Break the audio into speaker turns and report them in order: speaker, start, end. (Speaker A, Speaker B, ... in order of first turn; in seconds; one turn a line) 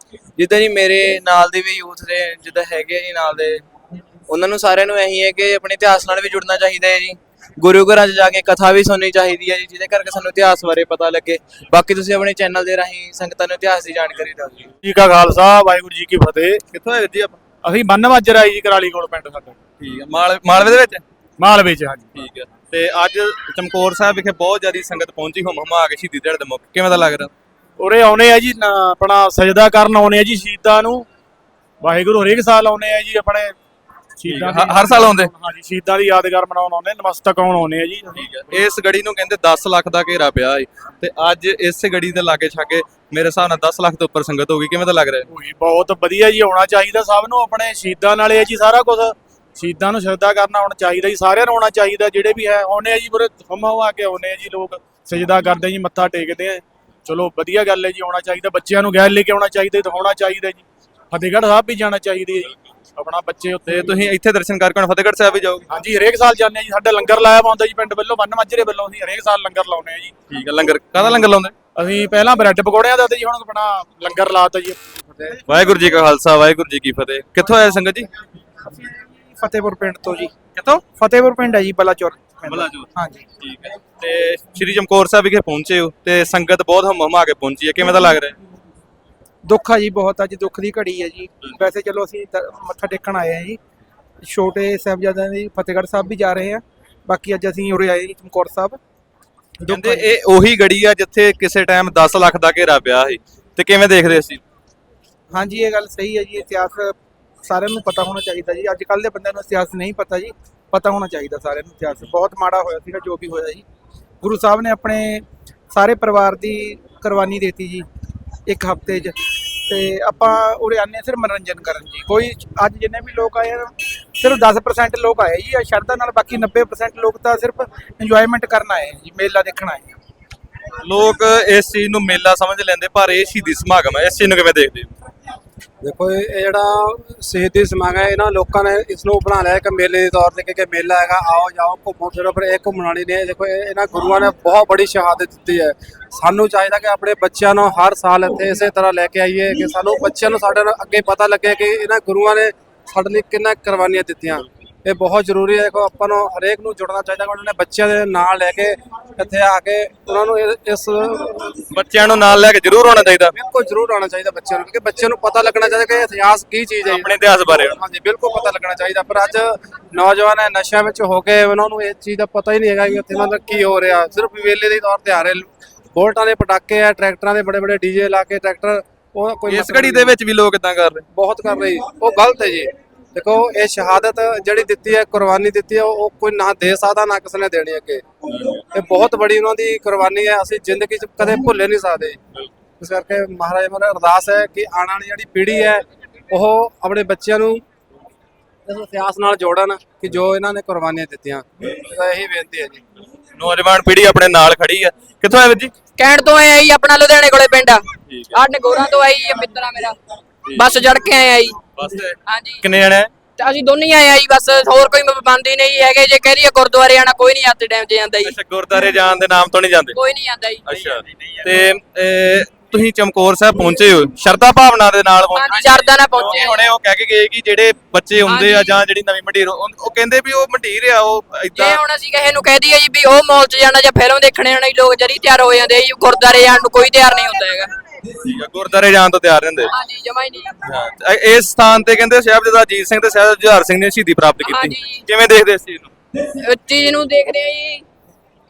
Speaker A: 0.4-3.6
Speaker A: 4.3-14.7
Speaker B: 14.8-16.6
Speaker C: 16.7-17.4
Speaker B: 17.6-19.6
Speaker C: 19.8-21.0
Speaker B: 21.4-22.1
Speaker C: 22.1-27.3
Speaker B: 27.8-31.1
Speaker B: 31.8-33.5
Speaker B: 34.2-38.2
Speaker C: 34.2-35.3
Speaker C: 38.1-45.3
Speaker B: 45.3-63.9
Speaker C: 63.7-65.7
Speaker B: 65.7-70.1
Speaker C: 70.3-71.5
Speaker B: 71.8-74.9
Speaker C: 75.5-78.1
Speaker D: 78.7-83.2
Speaker C: 82.5-88.3
Speaker D: 89.4-93.6
Speaker D: 94.2-98.8
Speaker D: 99.6-100.0
Speaker C: 99.7-104.4
Speaker D: 105.3-113.6
Speaker D: 114.2-117.8
Speaker D: 118.5-129.9
Speaker C: 130.8-134.9
Speaker E: 135.8-161.5
Speaker C: 161.7-163.3
Speaker E: 163.3-180.1
Speaker C: 166.8-167.8
Speaker C: 179.5-181.1
Speaker E: 181.1-188.0
Speaker E: 188.7-192.2
Speaker E: 192.8-197.6
Speaker E: 198.7-202.8
Speaker C: 203.4-205.7
Speaker F: 206.0-210.0
Speaker C: 208.1-208.4
Speaker F: 210.5-211.6
Speaker C: 211.8-213.1
Speaker F: 212.3-212.6
Speaker F: 213.4-218.3
Speaker C: 218.2-220.0
Speaker F: 219.9-220.7
Speaker C: 220.7-231.8
Speaker F: 225.3-226.7
Speaker F: 228.2-228.8
Speaker F: 231.5-237.7
Speaker C: 238.2-239.7
Speaker F: 239.7-240.6
Speaker C: 240.6-245.9
Speaker F: 244.4-245.0
Speaker F: 246.3-247.8